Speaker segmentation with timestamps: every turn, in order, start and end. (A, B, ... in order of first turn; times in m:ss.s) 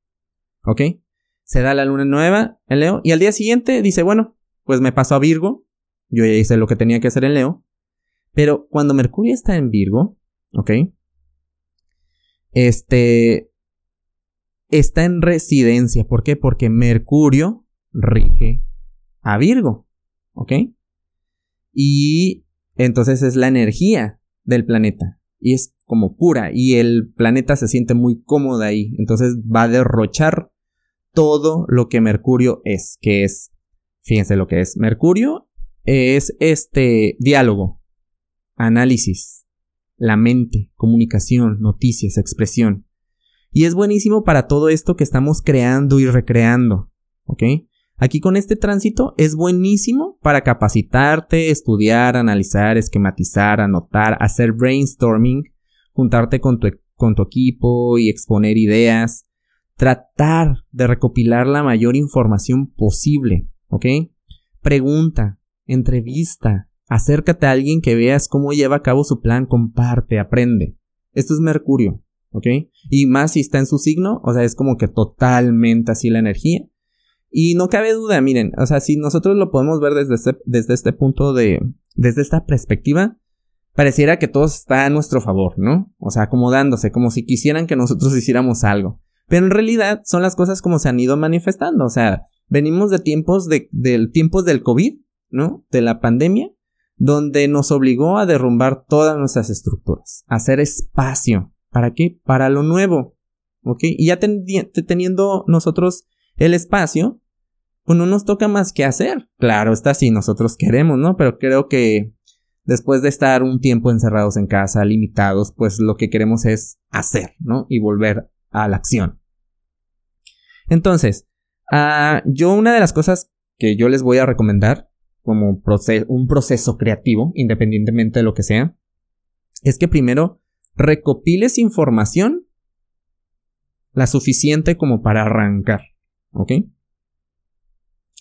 0:00.6-0:07.6 A
0:08.3-0:10.9 A
0:12.5-0:13.5 A
0:14.7-0:18.6 A
0:19.2-0:20.6 A
0:21.7-0:30.5 A
0:31.1-0:33.5 A
0:34.0-0:37.8 A
0:38.6-0:39.4 A
0:40.0-0:42.8 A
0:43.5-0:59.2 A
0:59.8-1:04.1 A
1:04.6-1:16.7 A
1:17.3-1:23.2 A
1:23.7-1:47.2 A
1:47.8-1:52.1 A
1:52.6-1:59.2 A
2:00.7-2:08.7 A
2:09.6-2:12.4 A
2:13.9-2:16.6 A